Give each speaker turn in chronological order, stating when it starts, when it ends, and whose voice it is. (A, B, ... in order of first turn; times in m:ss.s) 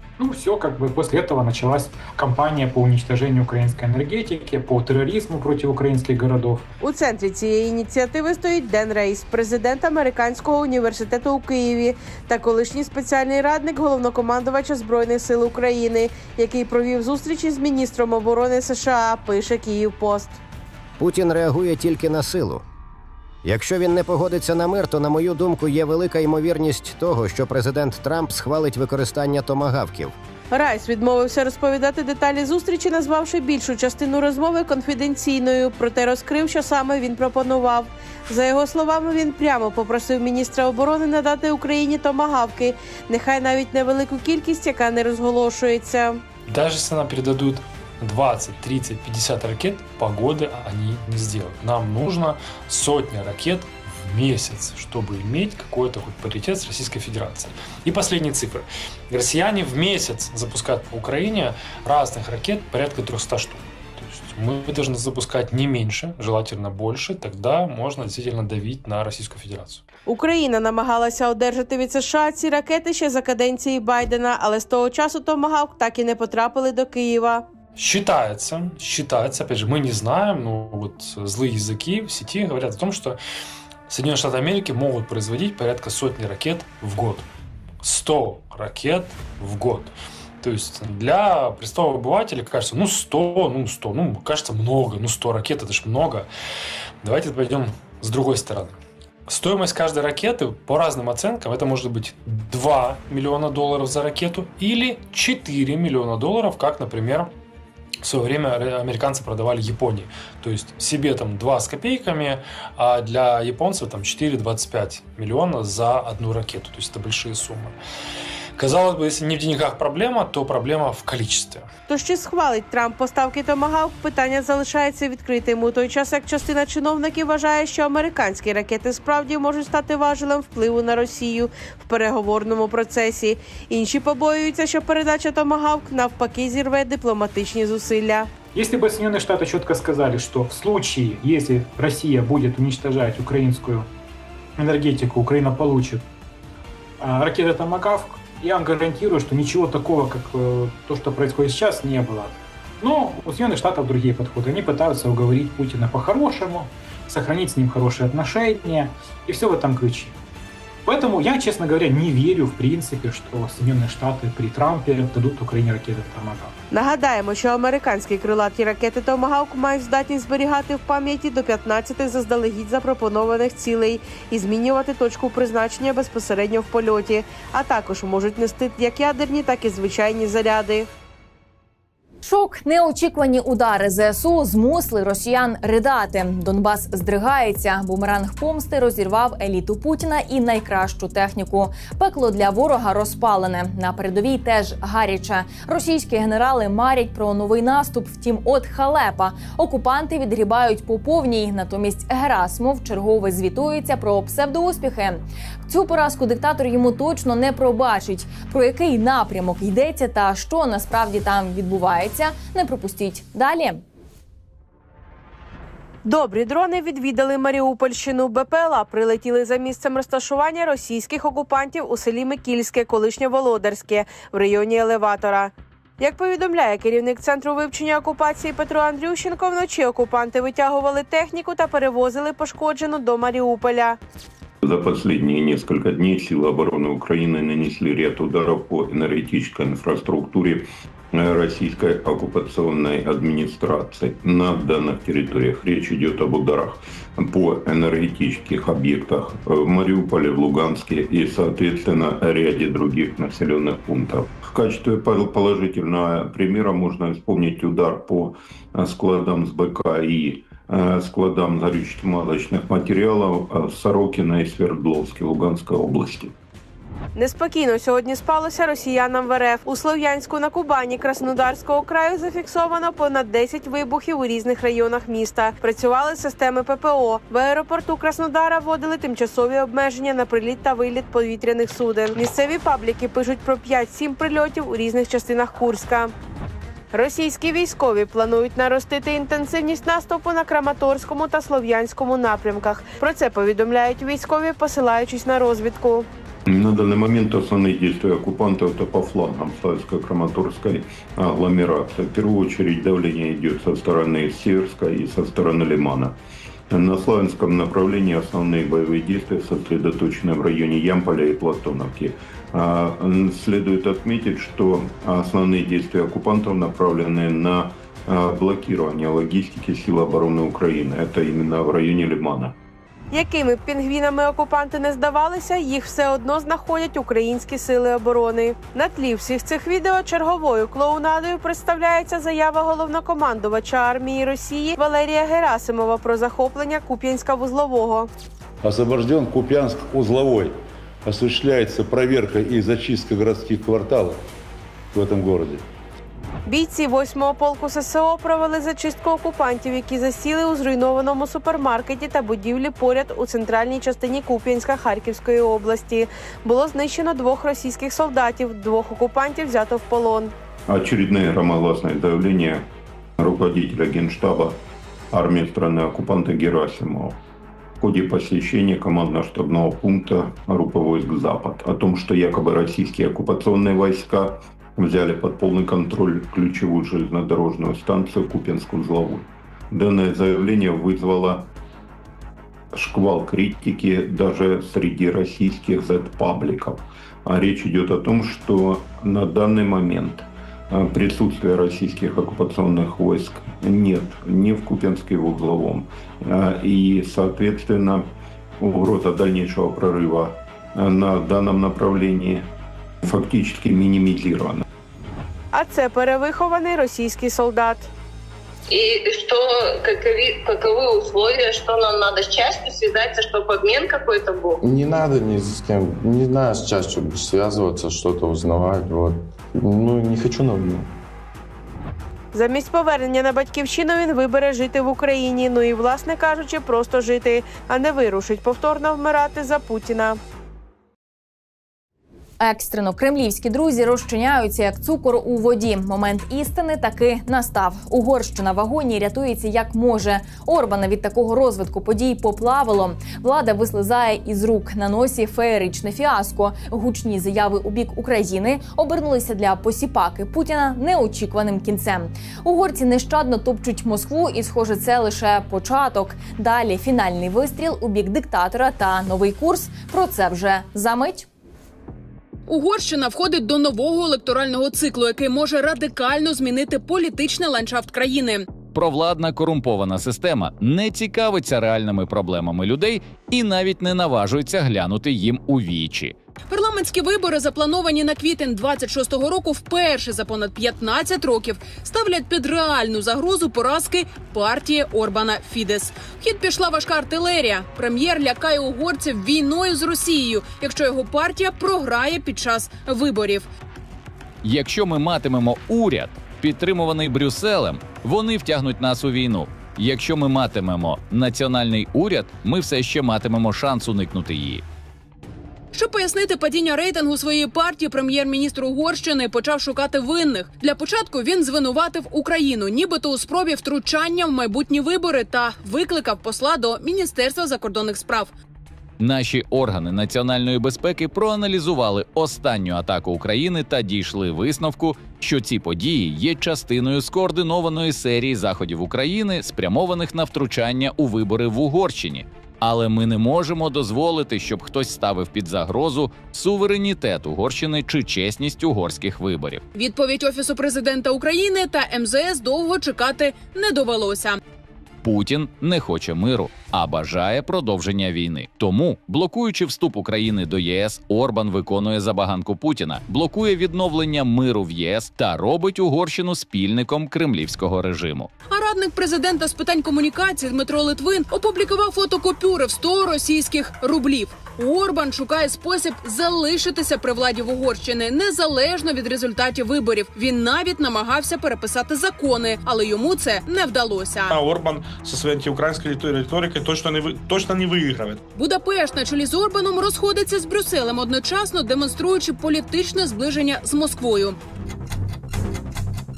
0:00.2-0:06.7 A
0:06.8-0:20.4 B
0:21.0-0:22.6 C
0:23.4-0:30.1 C
0:30.5-0:46.2 B
0:46.5-1:09.8 D
1:10.1-1:17.5 B
1:17.8-1:23.2 D
1:23.9-1:27.3 D
1:27.8-1:36.3 D
1:37.0-1:47.3 D
1:48.0-1:57.8 D
1:58.6-2:01.7 D
2:01.9-2:18.3 B
2:18.5-2:23.9 A
2:24.6-2:26.0 A
2:27.0-2:40.2 A
2:40.9-2:46.5 A
2:46.7-3:00.9 B
3:02.2-3:33.8 E
3:36.0-3:54.0 B
3:54.6-4:26.3 F
4:27.2-4:46.1 B
4:46.9-4:56.1 B
4:56.5-5:06.2 F
5:06.7-5:22.6 F
5:23.1-5:38.1 B
5:38.6-5:44.3 G
5:44.9-5:45.6 G
5:46.5-6:00.3 B
6:00.7-6:02.7 F
6:03.2-6:04.6 F
6:05.1-6:07.2 F
6:07.8-6:21.5 F
6:22.7-6:38.1 F
6:38.6-6:42.5 F
6:43.0-6:44.6 F
6:45.5-6:47.9 B
6:48.7-6:54.6 H
6:54.6-7:00.9 I
7:02.3-7:10.2 B
7:12.4-7:41.3 E
7:42.5-7:48.5 J
7:48.7-7:56.1 K
7:56.5-8:13.5 J
8:14.4-8:24.6 K
8:25.7-8:38.3 J
8:39.0-8:59.6 K
8:59.8-9:04.4 J
9:05.0-9:18.3 K
9:18.5-9:34.4 J
9:34.3-9:38.2 L
9:38.4-9:44.4 J